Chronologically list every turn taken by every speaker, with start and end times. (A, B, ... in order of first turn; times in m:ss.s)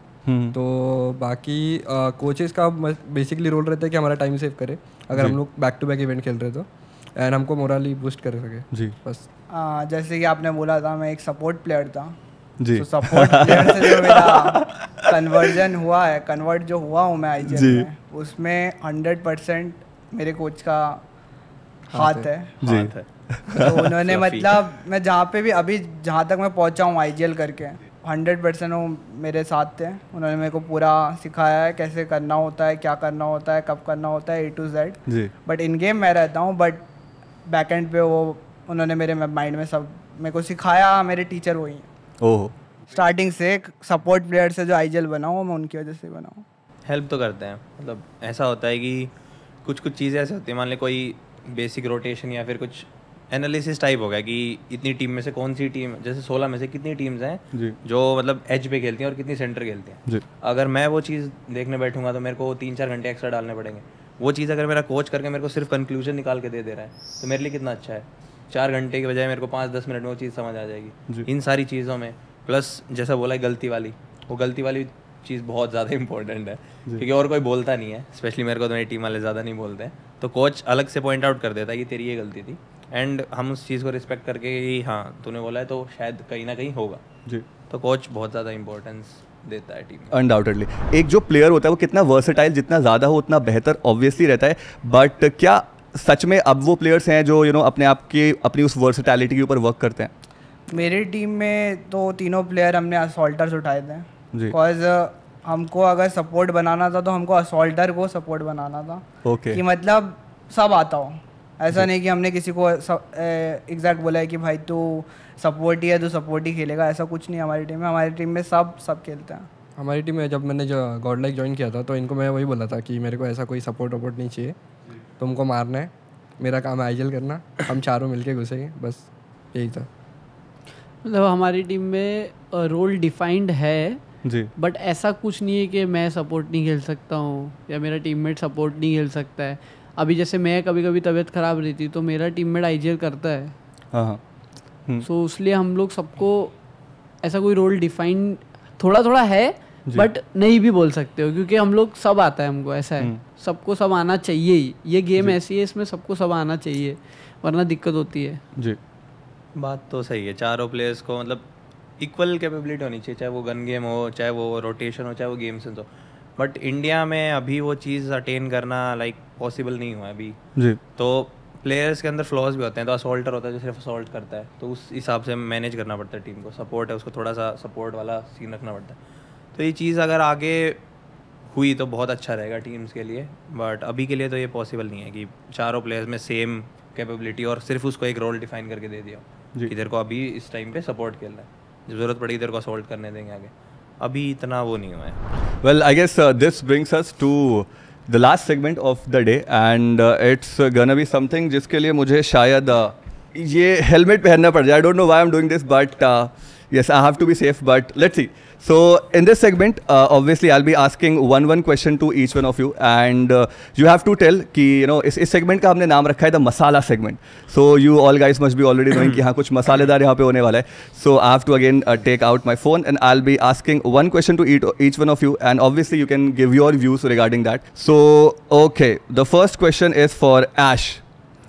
0:00.3-0:00.6 A
0:00.5-0:09.2 B
0:09.5-0:12.2 C
0:12.6-0:15.2 A
0:12.7-0:21.0 C
0:17.5-0:17.9 A
0:21.9-0:22.6 C
0:21.9-0:22.3 B
0:22.6-0:23.8 A
0:22.6-0:24.6 D
0:23.6-0:36.9 C
0:37.5-0:41.9 C
0:42.2-0:42.5 A
0:42.9-0:46.4 C
0:46.9-0:49.1 D
0:49.6-1:27.0 D
1:27.7-1:30.2 D
1:30.1-1:40.1 A
1:40.7-1:59.5 C
1:49.2-1:49.6 A
1:59.8-2:04.6 B
2:05.2-2:09.9 B
2:11.0-2:14.0 E
2:14.2-2:14.5 A
2:14.6-2:23.6 E
2:23.9-2:24.2 A
2:25.0-2:26.5 E
2:27.2-2:38.4 E
2:39.6-2:41.5 D
2:42.0-2:50.4 D
2:51.0-2:59.0 D
2:59.6-3:00.8 D
3:01.5-3:15.2 D
3:15.6-3:51.0 A
3:38.9-3:39.2 D